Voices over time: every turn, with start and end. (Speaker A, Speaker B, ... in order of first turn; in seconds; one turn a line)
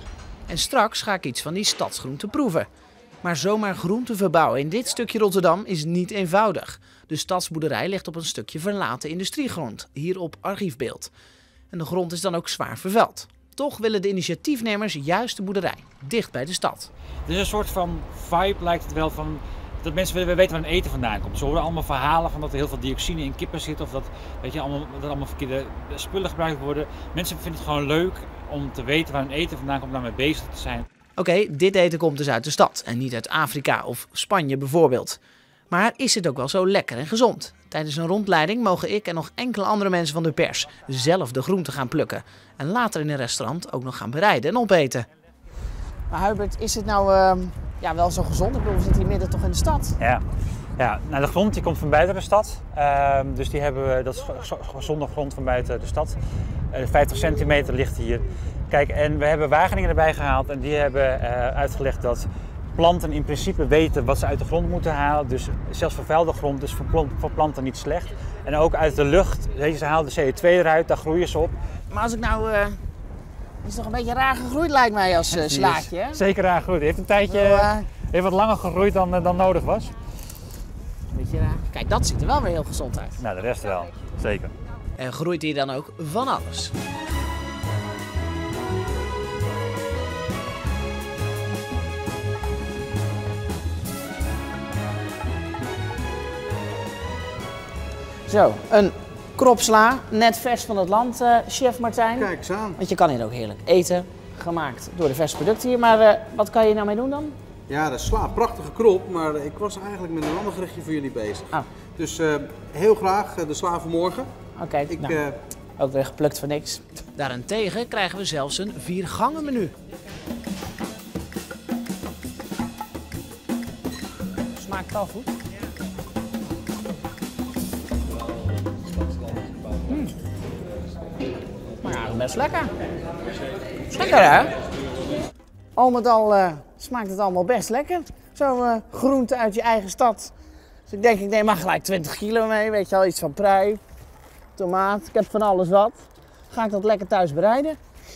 Speaker A: 0.5-2.7
Speaker A: 3.2-11.1
Speaker A: 11.7-16.9
Speaker B: 17.2-30.9
Speaker A: 31.2-35.2
Speaker A: 35.7-45.1
Speaker A: 46.1-50.0
Speaker B: 50.8-56.2
Speaker B: 56.7-71.5
Speaker A: 71.9-72.8
Speaker A: 73.6-76.2
Speaker B: 75.3-79.9
Speaker A: 77.3-77.9
Speaker A: 81.1-83.2
Speaker B: 83.2-84.5
Speaker A: 85.0-86.7
Speaker A: 98.3-107.3
Speaker C: 102.2-102.8
Speaker C: 107.7-114.3
Speaker A: 114.6-115.2
Speaker C: 114.9-115.4
Speaker A: 115.8-119.7
Speaker A: 124.6-125.3
Speaker A: 131.8-132.7
Speaker A: 133.9-134.5
Speaker A: 135.8-140.3
Speaker A: 140.9-143.8
Speaker A: 144.6-147.8